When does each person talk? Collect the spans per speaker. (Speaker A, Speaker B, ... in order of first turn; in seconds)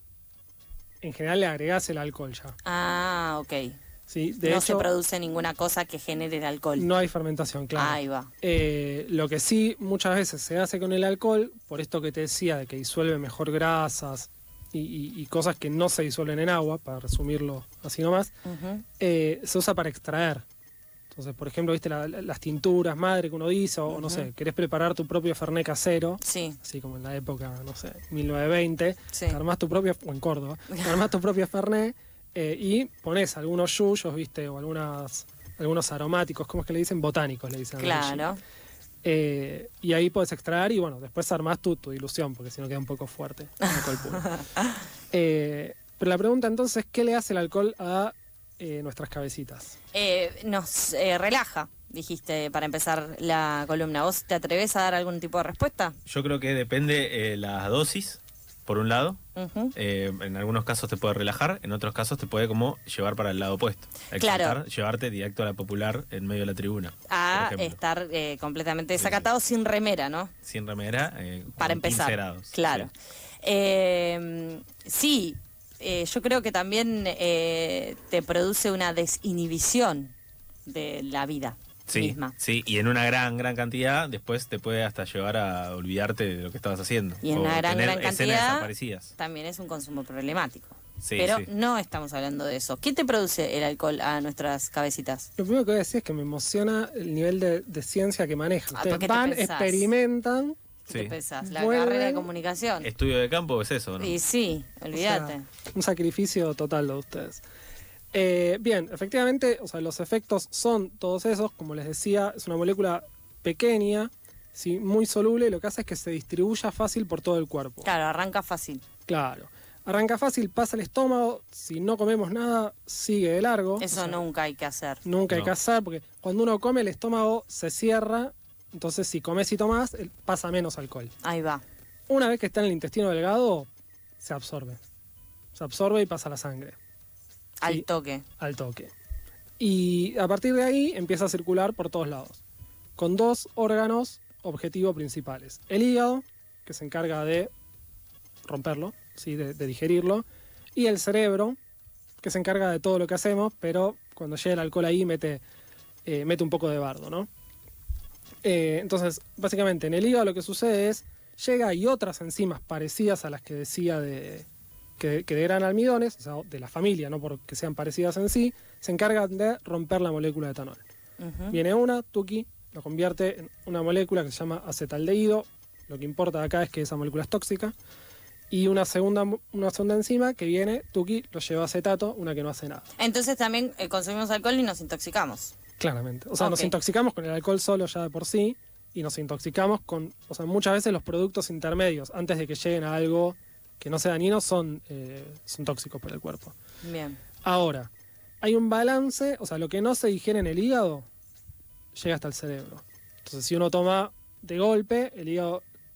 Speaker A: 1.0-2.5, 4.1-4.9, 6.8-18.3, 19.0-20.4, 21.1-38.3, 39.0-44.2, 45.1-49.7, 95.4-100.6, 101.4-102.3, 104.9-107.4, 108.1-117.9, 119.1-124.2, 125.0-131.1, 132.1-133.7, 134.2-134.8, 135.5-136.8, 138.4-138.9, 139.6-142.4, 143.0-147.5, 148.4-151.6, 152.2-155.4, 156.1-157.3, 158.4-164.5, 165.0-170.8, 171.5-177.7, 178.5-182.9, 185.8-196.5, 197.4-197.9, 198.4-201.1, 201.9-205.6
Speaker B: 2.6-3.8, 4.4-6.9, 7.8-8.3, 18.4-18.8, 23.9-24.3, 26.2-26.6, 29.1-29.4, 37.8-38.4, 43.6-44.8, 49.9-56.0, 59.4-59.7, 64.1-64.6, 67.1-70.3, 71.6-72.9, 73.4-80.1, 80.7-82.3, 87.2-95.3, 98.7-99.8, 100.9-102.9, 104.0-105.4, 117.8-118.8, 123.8-125.0, 131.2-131.6, 137.6-138.2, 171.2-171.6, 183.0-185.5, 186.4-186.7, 196.8-197.2
Speaker C: 56.1-59.2, 59.7-67.8, 69.0-69.3, 70.4-72.9, 81.9-89.1, 91.0-91.5, 100.9-101.2, 102.8-104.2